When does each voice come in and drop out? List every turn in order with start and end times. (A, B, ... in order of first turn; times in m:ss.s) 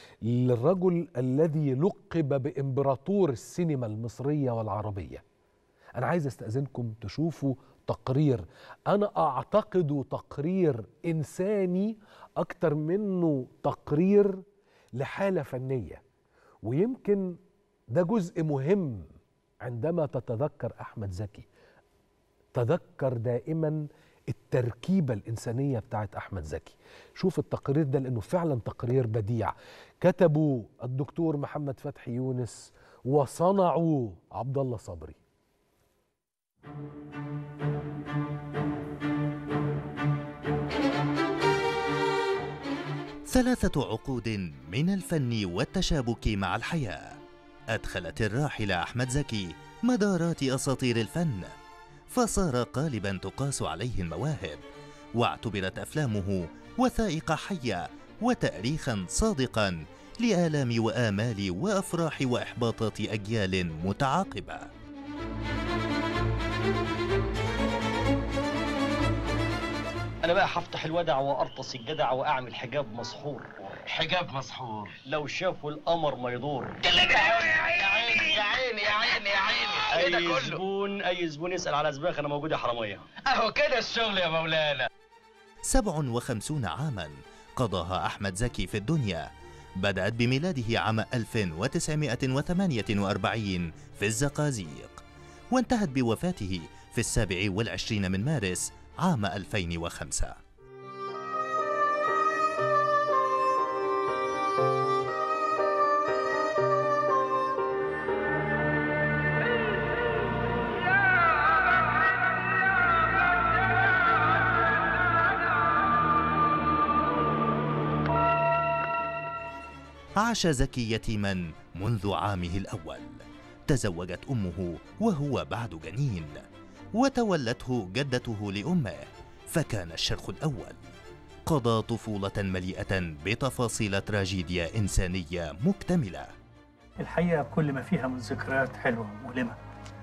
0:00.2-0:05.2 A
0:06.0-0:14.4 A
0:14.9-0:16.0 A
0:16.6-0:17.4 A
0:17.9-0:19.1 A
0:19.6-0:21.5 A
0:22.5-0:35.2 A
0:43.3-0:47.2 B
0:47.7-0:51.5 B
0:52.1-0:54.6 B
0:55.2-1:04.7 B
1:10.2-1:14.0 C
1:13.9-1:15.0 D
1:14.9-1:16.8 C
1:16.8-1:20.6 D
1:18.0-1:18.4 C
1:19.8-1:23.1 C
1:23.2-1:24.9 D
1:25.7-1:29.3 B
1:29.8-1:35.0 B
1:35.5-1:40.4 B
2:00.2-2:06.4 B
2:07.0-2:10.8 B
2:11.5-2:16.3 B
2:17.0-2:19.6 E